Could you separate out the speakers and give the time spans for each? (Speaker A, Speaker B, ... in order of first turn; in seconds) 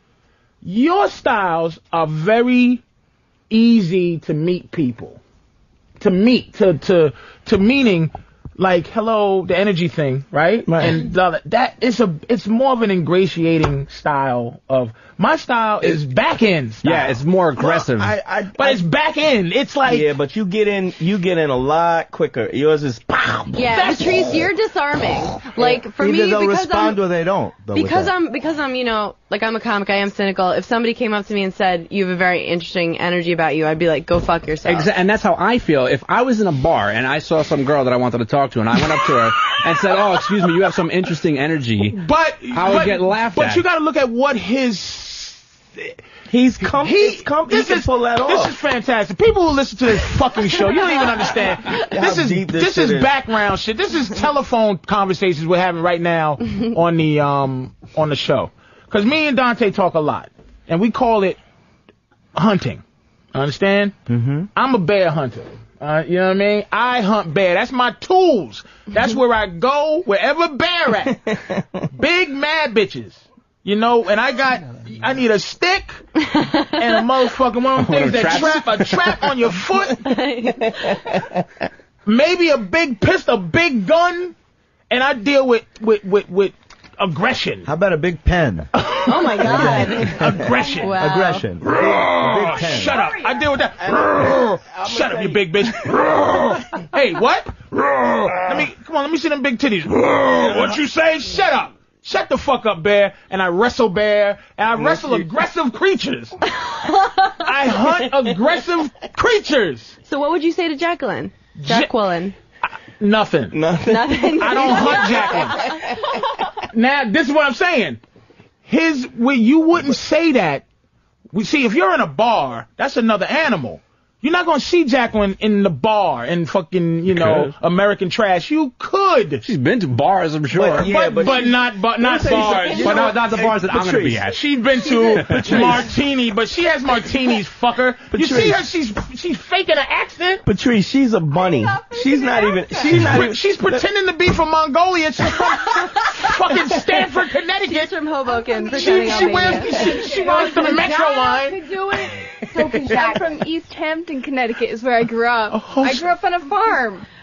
Speaker A: 0.6-2.8, 3.5-5.2, 6.0-17.1, 18.5-20.1, 23.7-24.0, 41.8-46.0, 46.6-61.4, 62.3-62.8, 63.3-63.9, 64.5-71.2, 71.9-76.0, 76.7-80.2, 82.0-84.3, 84.9-87.7, 88.7-91.0, 91.7-106.3, 107.3-110.0, 111.6-111.9, 112.7-113.5, 114.4-115.7, 116.6-118.0, 118.7-120.7, 121.3-129.4, 130.8-133.1, 134.3-140.4, 142.7-147.9, 148.7-153.1, 155.5-156.1
Speaker B: 10.7-11.0, 17.6-18.8, 19.8-24.1, 46.3-48.5, 51.8-53.1, 71.3-71.6, 80.7-81.4, 93.8-95.9, 100.3-100.8, 104.8-105.3, 113.5-116.2, 130.7-133.3, 135.4-135.9, 138.1-138.6, 140.4-143.8
Speaker C: 16.8-18.1, 34.6-42.0, 42.5-43.6, 77.8-79.2, 127.1-127.5, 129.4-130.9, 132.7-134.4, 135.0-135.8
Speaker D: 23.5-27.0, 27.7-34.9, 76.3-76.6, 79.8-81.0, 89.0-91.5, 92.7-93.4, 106.6-107.3, 110.0-112.3, 113.8-115.8, 141.5-142.6, 145.6-147.1, 147.6-150.9, 151.7-152.0, 152.7-153.2
Speaker E: 25.6-28.1, 64.1-64.5, 87.7-88.7, 89.5-93.0, 130.5-130.8, 133.3-134.2
Speaker F: 148.3-157.1